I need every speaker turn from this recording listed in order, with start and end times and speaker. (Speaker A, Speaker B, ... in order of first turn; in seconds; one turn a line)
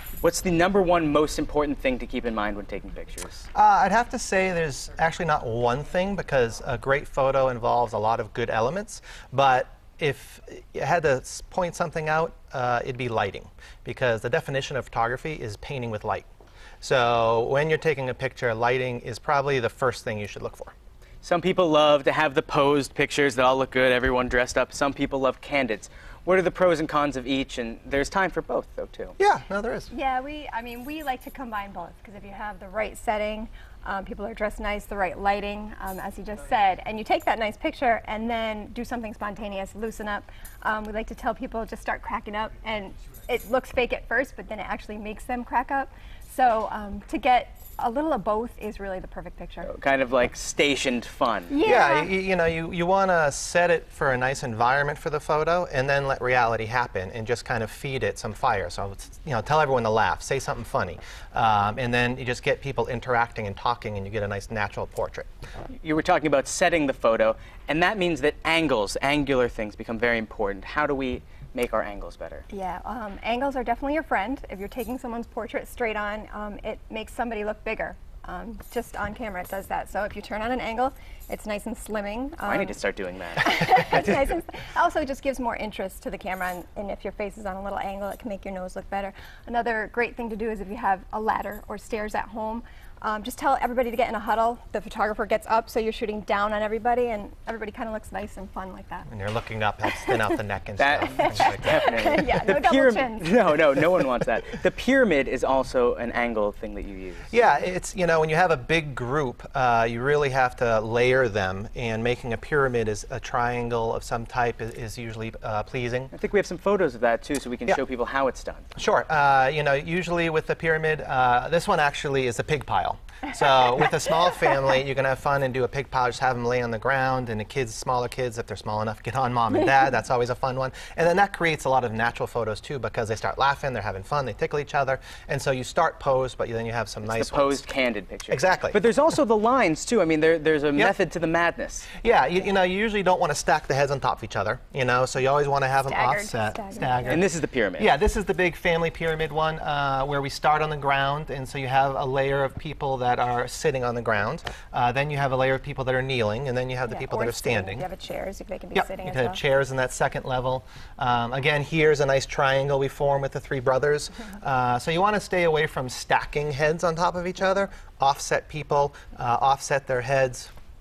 Speaker A: 0.2-3.5
Speaker B: 3.5-16.3
Speaker B: 16.8-20.7
Speaker A: 21.2-29.2
Speaker B: 29.2-29.9
Speaker C: 29.9-49.7
Speaker A: 49.6-51.6
Speaker C: 51.5-52.1
Speaker B: 51.6-65.3
Speaker A: 65.8-72.5
Speaker C: 72.5-82.8
Speaker A: 82.5-83.7
Speaker C: 83.4-99.1
Speaker B: 99.1-102.0
Speaker A: 100.8-107.3
Speaker C: 101.2-103.4
Speaker B: 107.3-116.1
Speaker A: 116.1-118.7
Speaker B: 118.8-137.6
Speaker A: 137.0-141.9
Speaker B: 138.3-138.8
Speaker B: 142.0-147.3
Speaker C: 145.9-147.2
Speaker A: 147.1-147.9
Speaker B: 147.8-157.8
Speaker C: 156.9-159.4
Speaker B: 158.8-170.5